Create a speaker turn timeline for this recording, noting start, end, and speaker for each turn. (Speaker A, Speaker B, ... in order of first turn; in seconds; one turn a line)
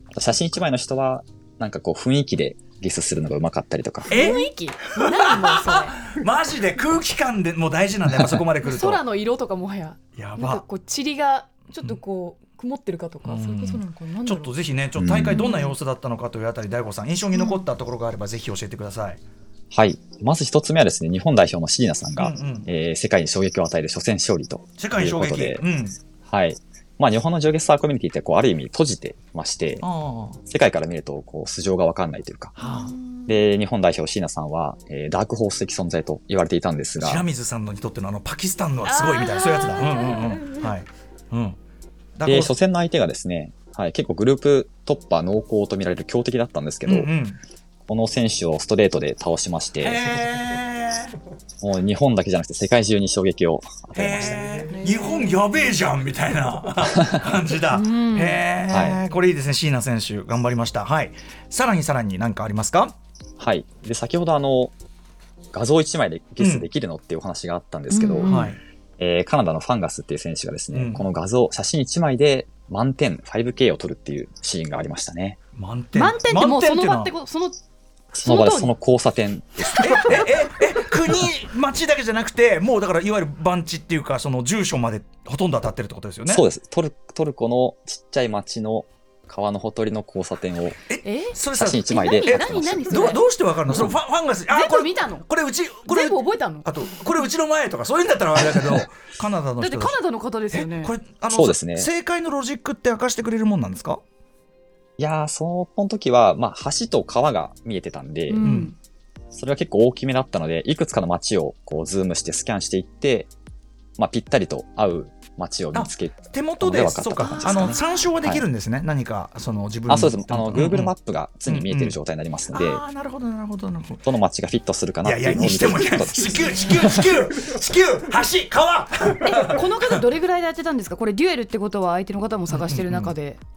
Speaker A: 0.1-4.1
Speaker B: 4.1-6.0
Speaker C: 4.1-9.0
Speaker B: 8.6-14.5
Speaker C: 10.2-10.6
Speaker C: 13.2-19.2
Speaker A: 14.9-15.4
Speaker B: 15.3-15.7
Speaker B: 17.3-17.6
Speaker A: 19.7-25.6
Speaker C: 22.2-22.7
Speaker C: 24.8-25.9
Speaker A: 26.3-29.8
Speaker C: 29.8-30.4
Speaker A: 30.5-32.5
Speaker C: 32.6-32.9
Speaker B: 32.6-33.3
Speaker A: 33.3-37.2
Speaker C: 37.0-41.6
Speaker B: 38.8-40.5
Speaker C: 42.2-42.5
Speaker A: 42.2-47.1
Speaker C: 46.8-47.4
Speaker A: 47.9-50.0
Speaker C: 49.8-51.1
Speaker A: 51.6-54.4
Speaker C: 53.9-63.0
Speaker B: 54.7-55.3
Speaker B: 57.7-58.4
Speaker A: 58.7-59.0
Speaker A: 63.4-64.7
Speaker A: 65.5-68.4
Speaker C: 66.4-66.7
Speaker B: 67.9-68.5
Speaker C: 68.2-68.6
Speaker A: 69.0-75.4
Speaker C: 70.7-71.1
Speaker C: 75.5-77.1
Speaker B: 75.9-77.6
Speaker B: 78.1-78.7
Speaker A: 78.2-80.2
Speaker C: 79.8-86.4
Speaker A: 86.3-90.8
Speaker C: 90.9-92.2
Speaker B: 91.0-91.3
Speaker A: 91.5-93.9
Speaker B: 91.9-93.2
Speaker C: 92.9-100.0
Speaker B: 94.5-95.2
Speaker B: 95.9-96.7
Speaker B: 99.6-100.9
Speaker C: 100.5-104.0
Speaker A: 101.3-101.9
Speaker A: 105.0-108.5
Speaker B: 108.3-108.7
Speaker C: 108.4-108.7
Speaker A: 109.3-113.3
Speaker A: 114.0-118.4
Speaker C: 115.7-120.9
Speaker B: 117.2-118.0
Speaker A: 119.9-122.8
Speaker C: 121.5-122.0
Speaker C: 122.5-124.0
Speaker A: 124.0-127.2
Speaker C: 125.0-129.9
Speaker B: 129.2-133.4
Speaker C: 132.5-133.1